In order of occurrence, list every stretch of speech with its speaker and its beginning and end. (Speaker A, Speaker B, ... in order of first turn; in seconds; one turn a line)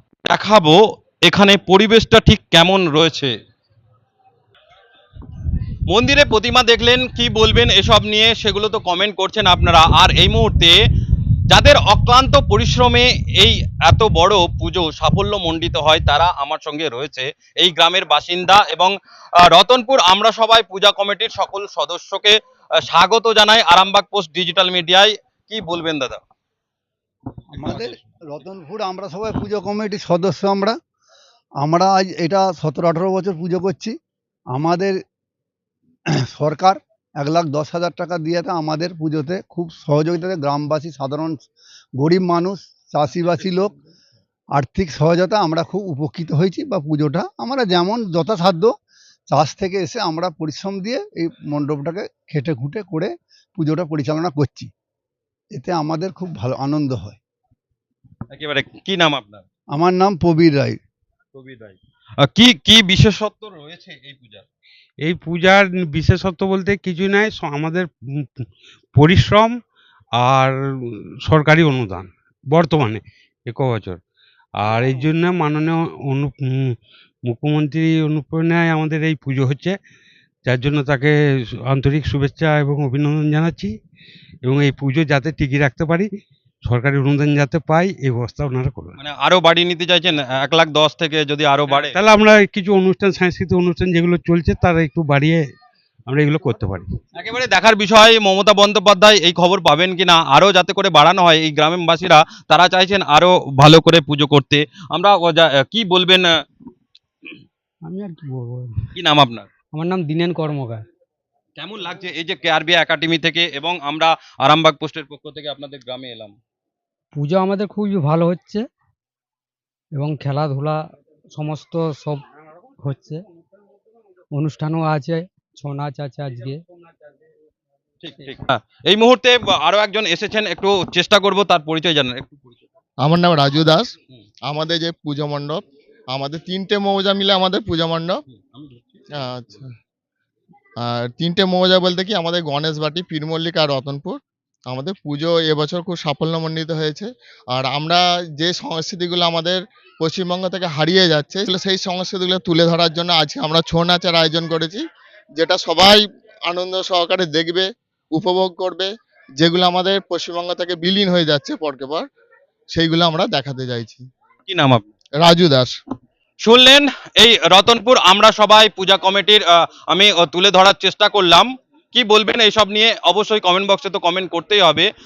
Speaker A: 0.2-3.3
Speaker A: 5.9-10.8
Speaker A: 11.5-26.2
Speaker B: 27.5-30.8
Speaker A: 27.6-28.0
Speaker B: 31.6-34.0
Speaker B: 34.5-35.0
Speaker B: 36.2-41.4
Speaker B: 42.0-43.7
Speaker B: 44.5-48.7
Speaker B: 49.3-54.7
Speaker B: 55.5-57.2
Speaker A: 58.3-59.5
Speaker B: 59.7-60.8
Speaker A: 61.3-64.5
Speaker C: 65.0-69.5
Speaker C: 70.2-74.0
Speaker C: 74.6-76.7
Speaker C: 77.2-79.8
Speaker C: 80.4-81.1
Speaker C: 81.7-83.7
Speaker C: 84.4-86.1
Speaker C: 86.6-89.0
Speaker A: 89.0-92.0
Speaker C: 91.7-95.4
Speaker C: 96.1-96.9
Speaker A: 97.1-106.3
Speaker D: 107.8-108.7
Speaker A: 108.9-109.5
Speaker D: 109.7-110.8
Speaker A: 111.6-116.3
Speaker D: 117.1-118.6
Speaker D: 119.9-120.8
Speaker D: 121.3-122.2
Speaker D: 122.8-123.2
Speaker D: 124.3-126.6
Speaker A: 128.0-132.7
Speaker E: 133.0-133.9
Speaker E: 134.5-135.6
Speaker E: 136.1-138.2
Speaker A: 138.3-139.6
Speaker E: 139.2-139.7
Speaker E: 140.8-154.8
Speaker E: 155.3-158.9
Speaker E: 159.4-162.0
Speaker E: 162.7-164.0
Speaker A: 164.5-164.8
Speaker E: 165.2-165.7
Speaker A: 166.4-174.9